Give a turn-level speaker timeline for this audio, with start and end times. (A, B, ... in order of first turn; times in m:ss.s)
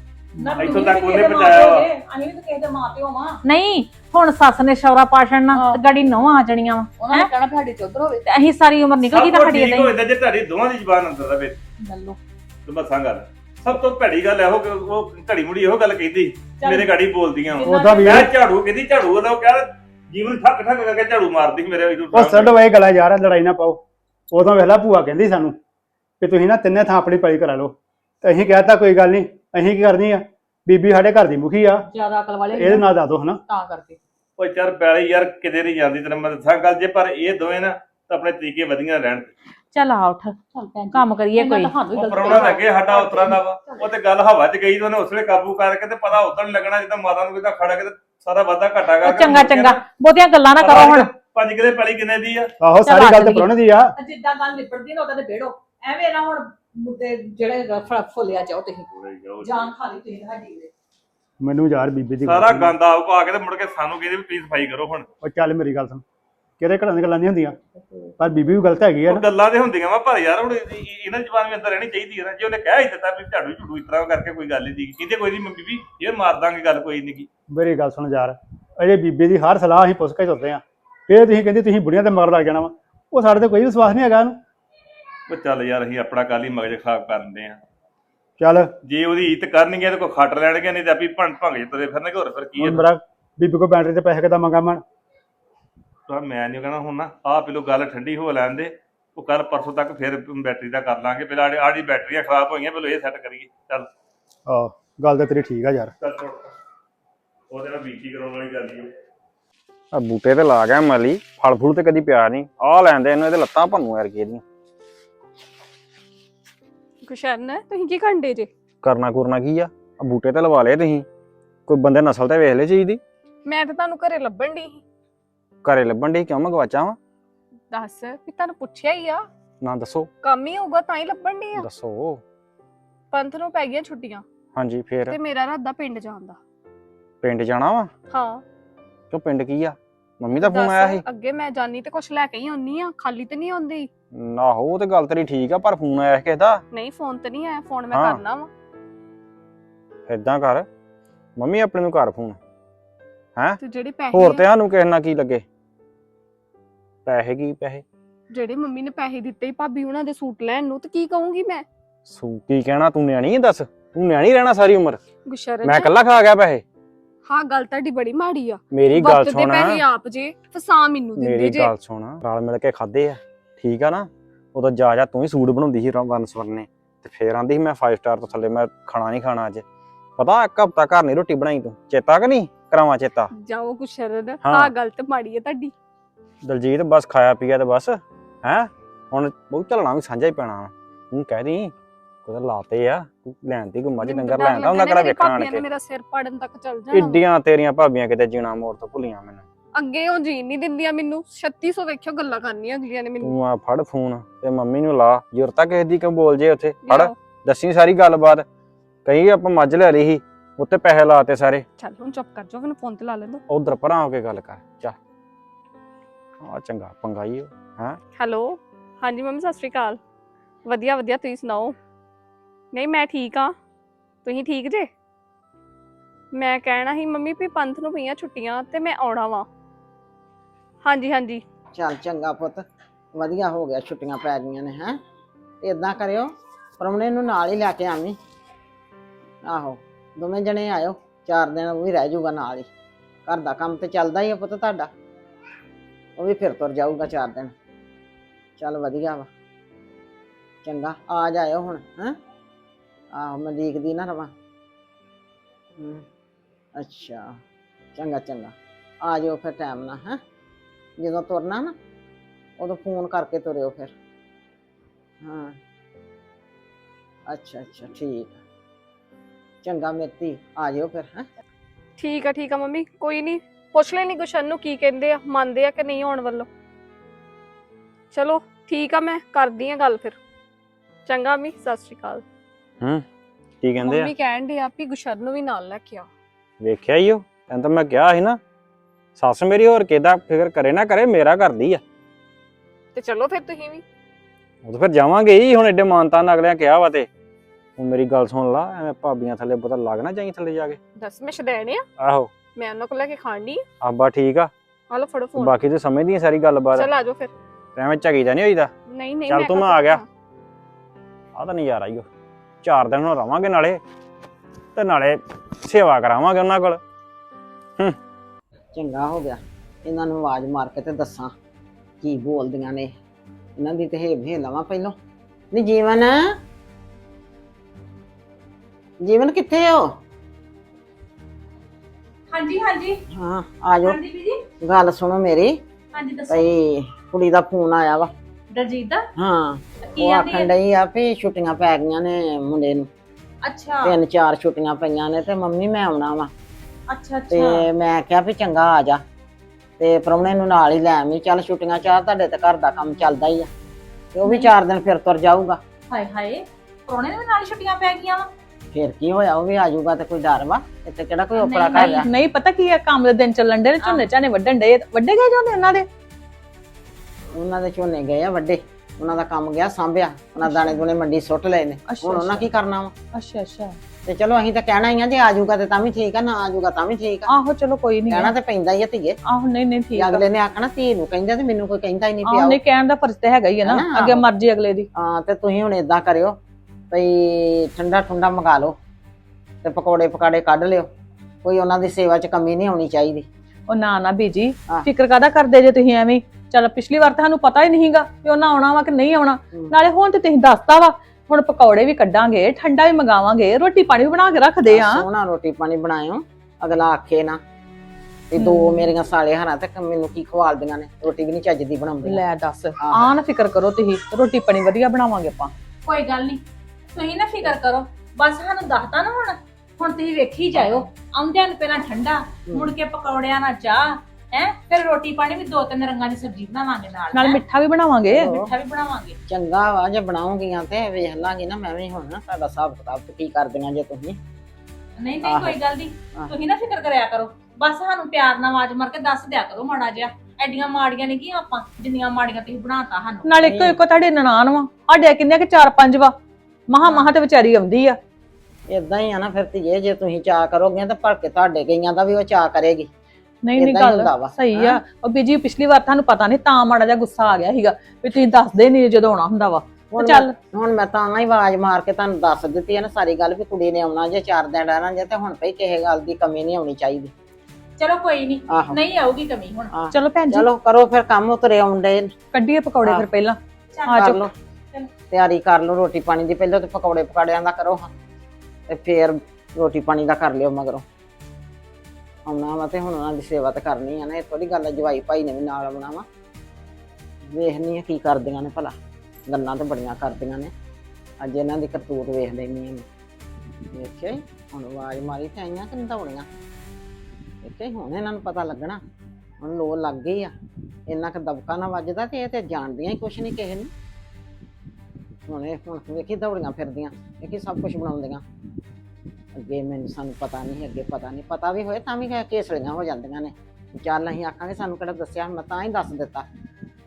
0:00.4-0:03.4 A
0:00.6-0:01.9 B
0:03.4-0:07.3 C
0:05.5-0:05.8 A
0:07.0-0:08.2 A
0:08.3-0:09.9 C
0:09.0-0:11.6 B
0:11.8-0:12.2 A
0:12.7-0:22.6 B
0:16.6-0:16.9 A
0:17.5-0:18.3 A
0:17.6-0:18.3 D
0:22.1-0:23.8 D
0:24.3-0:25.6 D
0:26.2-0:31.8 D
0:31.9-0:32.9 A
0:32.6-0:33.4 D
0:33.5-0:34.0 A
0:34.4-0:39.3 B
0:39.7-0:40.4 C
0:40.5-0:43.8 A
0:40.9-0:41.7 C
0:41.9-0:49.8 B
0:49.0-0:51.1 C
0:50.6-0:52.5 B
0:52.6-0:53.9 D
0:52.8-0:53.5 C
0:54.0-0:58.9 A
0:58.9-0:59.7 B
0:59.4-1:00.7 A
1:01.4-1:02.7 D
1:02.2-1:05.1 B
1:05.2-1:06.0 D
1:06.6-1:07.6 D
1:08.2-1:09.2 D
1:09.1-1:17.3 B
1:17.5-1:24.4 D
1:25.3-1:27.6 B
1:28.4-1:28.7 D
1:28.8-1:32.8 B
1:32.6-1:34.8 D
1:36.1-1:43.9 B
1:44.4-1:45.9 D
1:46.0-1:46.4 B
1:47.5-1:48.9 B
1:49.9-1:54.4 E
1:57.0-1:58.5 F
1:58.8-2:01.0 E
2:01.7-2:03.0 E
2:03.4-2:04.8 F
2:05.6-2:07.0 E
2:07.7-2:09.2 F
2:09.6-2:10.1 E
2:10.2-2:11.7 F
2:11.5-2:12.2 E
2:13.1-2:14.2 F
2:14.5-2:15.2 E
2:15.1-2:16.4 F
2:17.2-2:17.9 E
2:18.1-2:18.4 F
2:19.1-2:21.0 E
2:20.4-2:23.9 F
2:24.1-2:26.6 E
2:26.7-2:28.5 F
2:27.9-2:28.2 E
2:30.1-2:30.7 E
2:31.4-2:32.4 E
2:33.6-2:34.4 F
2:34.1-2:35.4 E
2:37.0-2:37.8 E
2:38.3-2:41.6 F
2:42.1-2:45.0 E
2:45.2-2:45.9 F
2:45.6-2:46.6 E
2:47.2-2:51.7 F
2:48.7-2:49.8 E
2:51.1-2:59.6 E
3:00.2-3:03.3 E
3:03.3-3:05.7 F
3:04.4-3:04.7 E
3:06.4-3:11.7 E
3:12.2-3:15.7 E
3:14.0-3:17.2 F
3:16.9-3:19.4 E
3:19.7-3:23.4 F
3:23.2-3:28.4 E
3:26.8-3:27.1 F
3:29.0-3:31.6 E
3:31.8-3:33.4 F
3:33.5-3:34.9 E
3:36.4-3:38.0 E
3:38.2-3:40.0 F
3:40.6-3:41.8 F
3:42.7-3:43.6 F
3:44.2-3:44.9 F
3:46.3-3:49.5 F
3:50.8-3:51.4 F
3:51.7-3:52.6 G
3:53.1-3:55.0 G
3:55.6-3:58.2 G
3:59.4-4:02.7 G
4:03.3-4:04.9 G
4:06.2-4:07.5 G
4:08.6-4:09.3 G
4:10.6-4:12.2 G
4:13.1-4:14.3 G
4:15.8-4:16.0 G
4:16.8-4:17.4 G
4:18.0-4:20.2 G
4:21.0-4:21.7 G
4:22.6-4:23.9 G
4:25.2-4:25.6 G
4:27.3-4:28.4 G
4:29.6-4:31.2 G
4:32.0-4:36.5 F
4:38.1-4:40.2 F
4:41.0-4:42.2 F
4:43.6-4:44.1 E
4:43.8-4:46.1 F
4:46.6-4:48.4 E
4:49.2-4:51.8 E
4:52.9-4:53.8 F
4:54.6-4:57.1 E
4:57.8-5:00.8 E
5:01.0-5:01.8 F
5:02.0-5:02.3 E
5:02.5-5:03.6 F
5:03.8-5:04.5 E
5:04.9-5:05.6 F
5:05.4-5:06.9 E
5:06.7-5:07.3 F
5:07.8-5:08.7 E
5:08.9-5:10.0 F
5:09.2-5:10.0 E
5:11.4-5:12.0 E
5:12.6-5:13.8 E
5:14.7-5:16.8 E
5:18.7-5:21.3 G
5:22.0-5:22.9 G
5:23.6-5:24.9 G
5:25.5-5:26.3 G
5:29.0-5:29.9 G
5:32.3-5:33.0 C
5:33.1-5:34.0 G
5:33.8-5:34.4 C
5:34.6-5:35.6 G
5:35.9-5:36.4 C
5:36.3-5:38.1 G
5:38.5-5:39.0 C
5:39.2-5:42.9 G
5:39.8-5:40.5 C
5:43.4-5:44.0 C
5:43.8-5:46.3 G
5:46.9-5:47.6 C
5:47.3-5:49.0 G
5:49.8-5:53.5 G
5:54.1-5:55.6 G
5:55.9-5:58.3 C
5:58.7-6:02.1 G
6:01.4-6:02.0 C
6:01.5-6:05.9 A
6:07.3-6:12.9 G
6:10.4-6:10.8 A
6:11.9-6:12.5 A
6:13.1-6:13.8 A
6:14.0-6:17.4 G
6:17.3-6:18.3 A
6:18.1-6:19.2 G
6:19.3-6:20.2 A
6:20.0-6:22.6 G
6:22.2-6:24.9 A
6:23.6-6:24.2 G
6:24.9-6:26.4 G
6:26.9-6:28.8 G
6:29.6-6:30.9 G
6:31.4-6:33.3 G
6:33.7-6:45.0 A
6:44.6-6:47.4 G
6:48.3-6:52.2 G
6:48.4-6:48.9 A
6:52.0-6:55.5 A
6:52.8-6:53.1 G
6:55.8-6:56.4 C
6:56.9-7:07.4 C
7:00.6-7:00.8 G
7:02.5-7:02.7 G
7:07.1-7:08.3 A
7:08.1-7:08.5 G
7:08.2-7:09.2 C
7:09.3-7:14.2 G
7:15.0-7:23.3 C
7:15.2-7:15.6 G
7:23.2-7:26.1 A
7:23.4-7:23.8 G
7:26.7-7:28.0 A
7:28.7-7:32.9 G
7:33.4-7:40.3 A
7:33.6-7:34.8 G
7:39.9-7:47.1 G
7:47.8-7:49.7 C
7:48.5-7:48.8 G
7:49.7-7:52.1 G
7:49.9-7:50.5 A
7:52.3-7:53.4 A
7:52.8-7:53.1 G
7:53.7-7:54.1 C
7:53.9-7:54.3 G
7:55.1-7:57.9 G
7:58.7-8:00.8 G
8:02.2-8:06.0 G
8:07.3-8:08.7 G
8:09.3-8:10.5 G
8:11.2-8:12.8 G
8:13.7-8:16.3 G
8:17.4-8:18.8 G
8:19.4-8:20.3 G
8:20.9-8:23.7 G
8:25.3-8:28.2 G
8:29.4-8:36.2 G